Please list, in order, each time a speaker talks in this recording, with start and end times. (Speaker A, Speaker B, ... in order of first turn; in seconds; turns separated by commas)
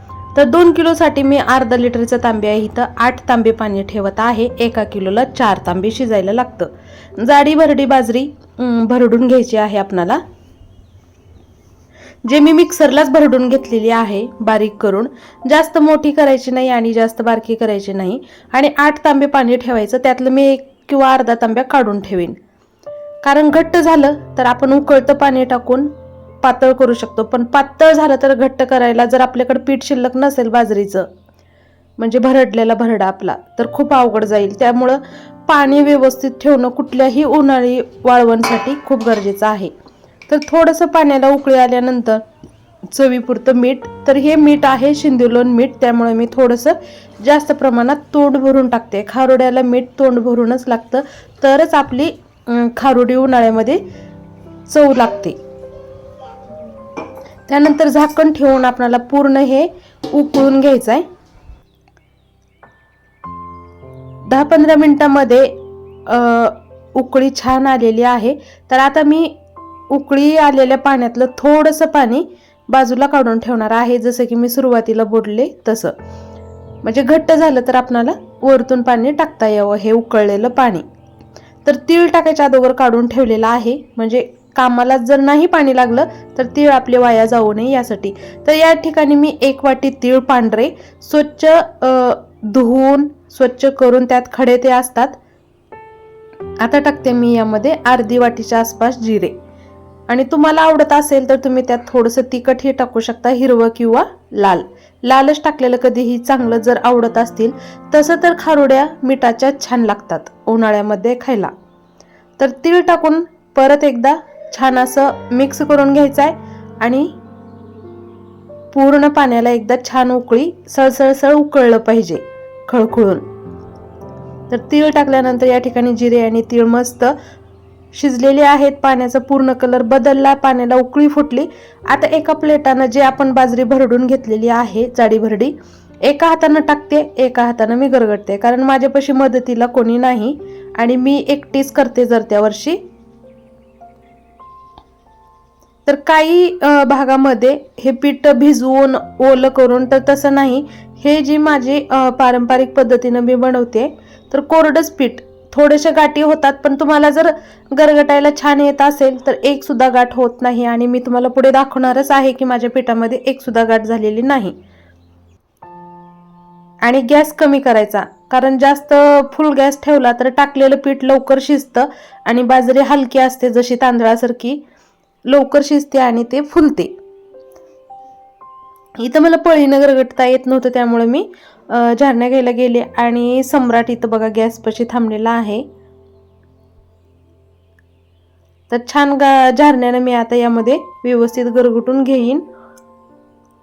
Speaker A: 0.3-10.2, Speaker A: 12.2-22.4, Speaker A: 23.2-25.9, Speaker A: 26.4-31.1, Speaker A: 32.0-39.7, Speaker A: 40.3-42.2, Speaker A: 42.9-53.8, Speaker A: 54.7-55.4, Speaker A: 57.5-61.0, Speaker A: 64.2-69.4, Speaker A: 69.9-76.0, Speaker A: 76.8-80.8, Speaker A: 81.7-95.2, Speaker A: 96.6-99.3, Speaker A: 100.1-111.5, Speaker A: 112.4-117.1, Speaker A: 118.7-123.2, Speaker A: 124.5-127.1, Speaker A: 127.9-135.5, Speaker A: 136.0-142.8, Speaker A: 145.8-164.6, Speaker A: 166.8-174.6, Speaker A: 175.3-176.9, Speaker A: 179.0-185.6, Speaker A: 188.7-192.4